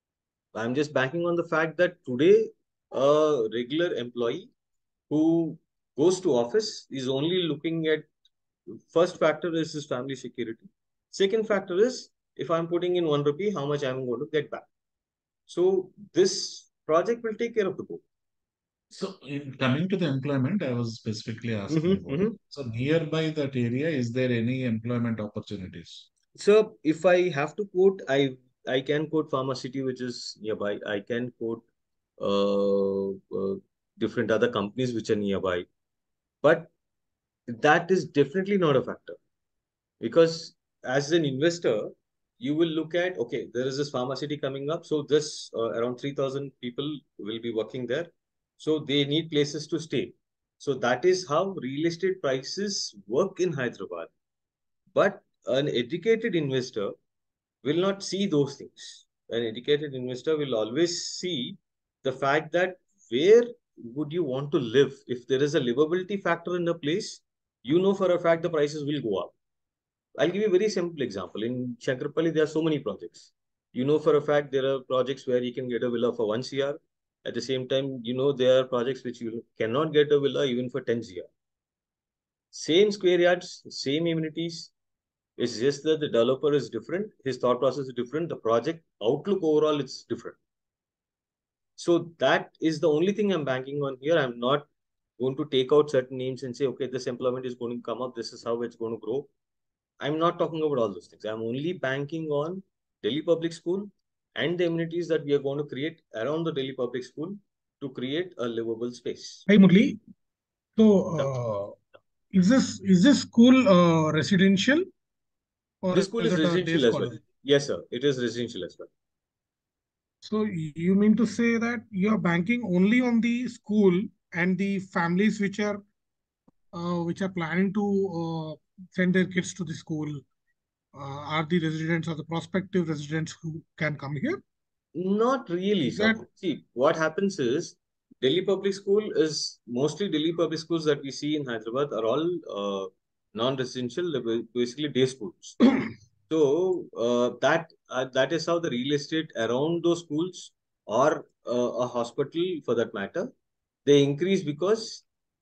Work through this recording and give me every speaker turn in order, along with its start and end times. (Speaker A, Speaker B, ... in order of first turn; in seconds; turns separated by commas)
Speaker A: 0.5-4.5, Speaker A: 5.1-8.1, Speaker A: 8.7-14.7, Speaker A: 15.5-18.0, Speaker B: 18.9-26.1, Speaker A: 21.7-22.4, Speaker A: 26.4-31.6, Speaker A: 32.2-35.6, Speaker A: 36.4-36.7, Speaker A: 37.5-39.2, Speaker A: 40.0-54.1, Speaker A: 54.9-56.9, Speaker A: 57.6-69.3, Speaker A: 70.2-81.3, Speaker A: 82.5-84.7, Speaker A: 85.4-90.4, Speaker A: 91.8-94.7, Speaker A: 95.2-99.3, Speaker A: 100.0-109.5, Speaker C: 109.5-110.0, Speaker C: 110.8-111.8, Speaker C: 112.3-114.9, Speaker C: 115.8-117.2, Speaker A: 115.9-118.9, Speaker C: 120.2-125.8, Speaker C: 126.7-130.2, Speaker C: 130.9-134.4, Speaker A: 134.9-145.6, Speaker C: 135.9-136.2, Speaker A: 146.3-153.3, Speaker A: 153.8-155.0